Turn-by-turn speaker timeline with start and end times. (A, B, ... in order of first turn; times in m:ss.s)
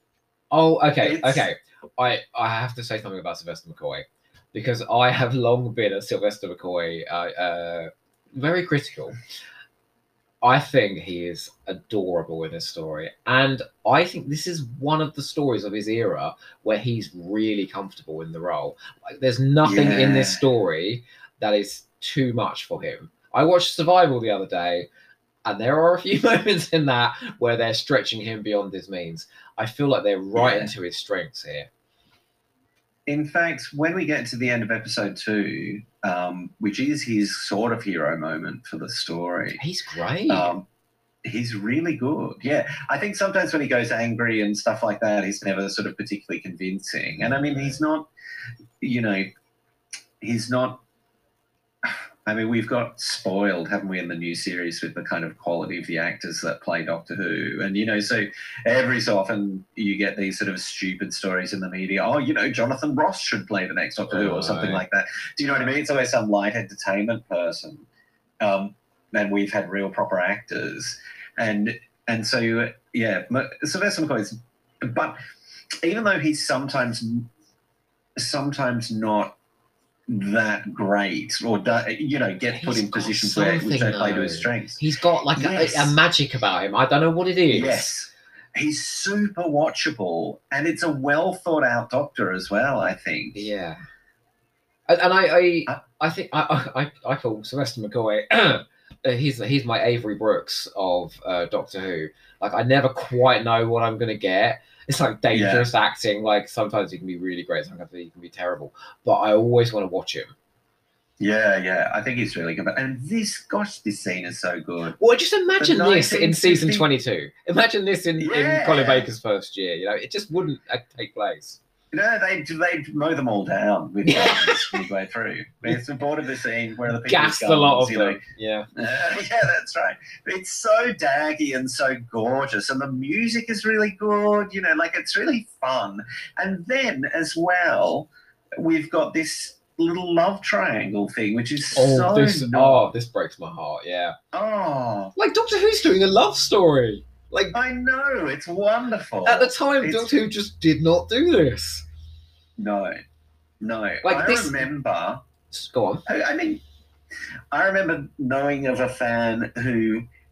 0:00.5-0:09.2 A
0:01.0-0:01.5 B
0:10.4-0:24.9 A
0:19.6-0:20.4 B
0:25.4-0:31.7 A
0:30.4-0:30.7 B
0:33.1-0:39.6 B
0:39.6-0:40.5 A
0:40.3-0:40.7 B
0:41.2-0:48.1 B
0:47.2-0:47.8 A
0:48.8-0:49.3 B
0:50.2-0:50.8 B
0:51.8-1:07.9 B
1:04.1-1:04.8 A
1:08.4-1:15.2 B
1:15.8-1:17.3 B
1:18.2-1:19.4 B
1:20.1-1:24.8 B
1:22.5-1:27.9 A
1:25.3-1:26.0 B
1:27.5-1:33.4 B
1:33.3-1:33.8 A
1:34.9-1:50.3 A
1:45.3-1:45.7 B
1:51.2-1:55.0 B
1:54.9-2:01.6 A
1:55.6-1:56.9 B
1:58.2-1:59.1 B
2:01.9-2:08.2 B
2:04.0-2:04.8 A
2:07.0-2:08.7 A
2:08.8-2:22.9 B
2:21.8-2:24.2 A
2:24.3-2:25.2 B
2:25.2-2:27.6 A
2:27.5-2:30.1 B
2:29.2-2:31.8 A
2:32.6-2:33.0 B
2:33.6-2:35.2 B
2:34.0-2:34.7 A
2:35.5-2:36.0 A
2:36.1-2:36.6 B
2:37.5-2:40.1 B